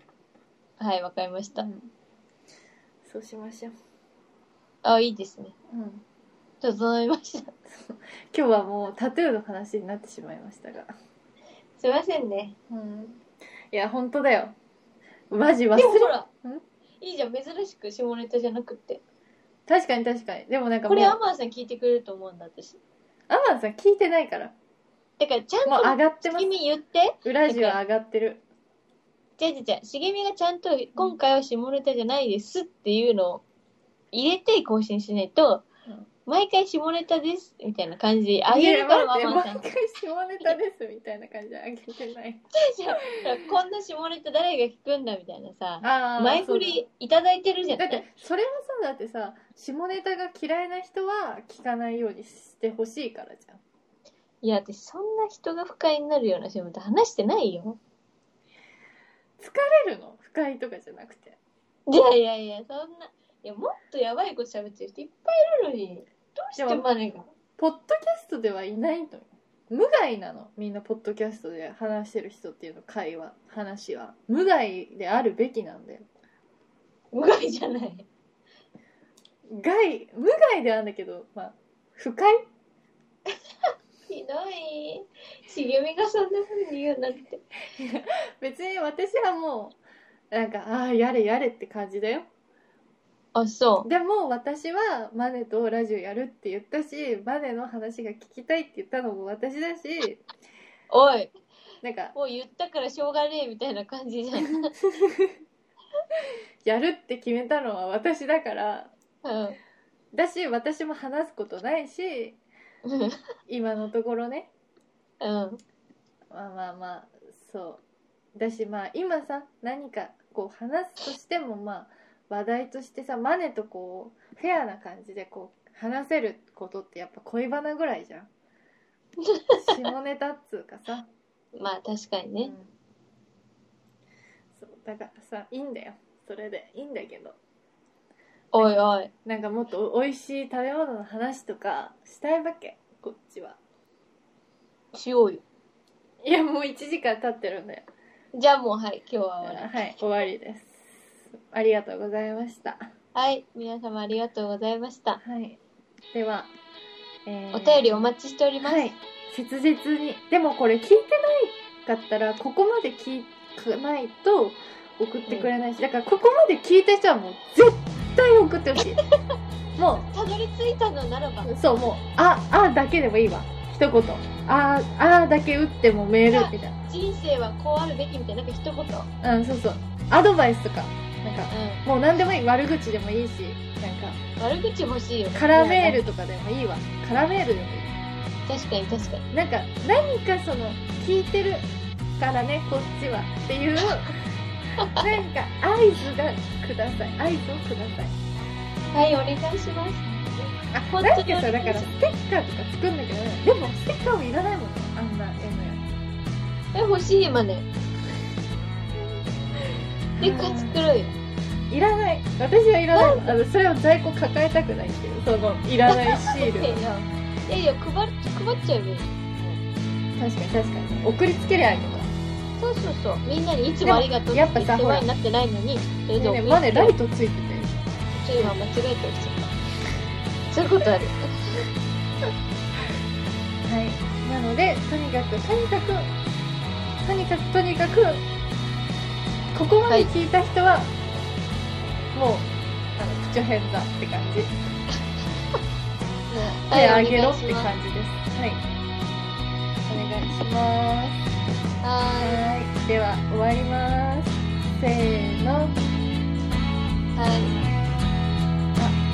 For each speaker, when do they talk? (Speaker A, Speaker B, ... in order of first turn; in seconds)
Speaker A: 0.8-1.6, 4.8-5.5, 6.6-7.5, 11.8-12.5, 15.7-16.3, 17.0-19.0, 20.9-22.8, 25.2-27.8, 29.4-33.4, 34.1-35.6, 36.2-39.6, 42.5-48.0, 54.4-57.8, 61.9-67.3, 77.1-78.1, 84.1-87.4, 93.3-93.9, 100.9-101.3, 102.1-104.7, 109.2-109.6, 112.8-113.2, 115.2-115.6, 129.2-129.6, 131.5-132.5, 138.5-139.1, 144.9-145.4, 148.3-149.9, 153.1-155.2, 157.5-158.9, 170.1-171.5, 176.3-179.1, 181.5-181.8, 184.4-186.1, 188.5-189.2, 198.9-200.2, 200.9-201.9, 206.7-207.7, 210.2-211.2, 212.9-213.3, 215.9-219.6, 222.6-226.9, 228.2-229.5, 230.5-231.7, 246.3-247.7, 251.8-252.4, 257.1-257.6
Speaker B: 1.5-1.9, 3.0-3.8, 5.7-6.0, 7.8-10.9, 12.7-14.6, 15.3-16.6, 19.7-21.2, 23.3-24.5, 25.6-26.5, 27.2-28.4, 38.5-42.4, 43.0-43.5, 45.8-46.8, 47.8-53.6, 59.4-61.4, 66.5-66.9, 67.6-76.1, 79.5-82.4, 87.7-89.8, 90.3-92.3, 93.8-100.2, 101.8-102.1, 105.0-105.3, 106.6-108.9, 110.1-112.4, 113.5-114.5, 116.3-117.8, 118.3-128.3, 129.6-131.1, 132.4-132.7, 134.6-137.3, 138.6-143.6, 146.2-147.8, 149.4-150.9, 151.4-152.8, 155.2-155.6, 156.1-156.5, 157.2-169.0, 169.8-170.1, 171.4-176.8, 179.2-184.2, 185.3-187.9, 189.3-191.7, 192.2-194.2, 194.9-198.1, 200.7-205.9, 210.2-210.8, 211.7-216.8, 220.2-222.1, 223.8-225.1, 226.2-228.6, 233.6-236.1, 237.0-238.2, 239.5-240.9, 242.1-244.5, 246.6-248.6, 249.8-251.2, 252.2-255.8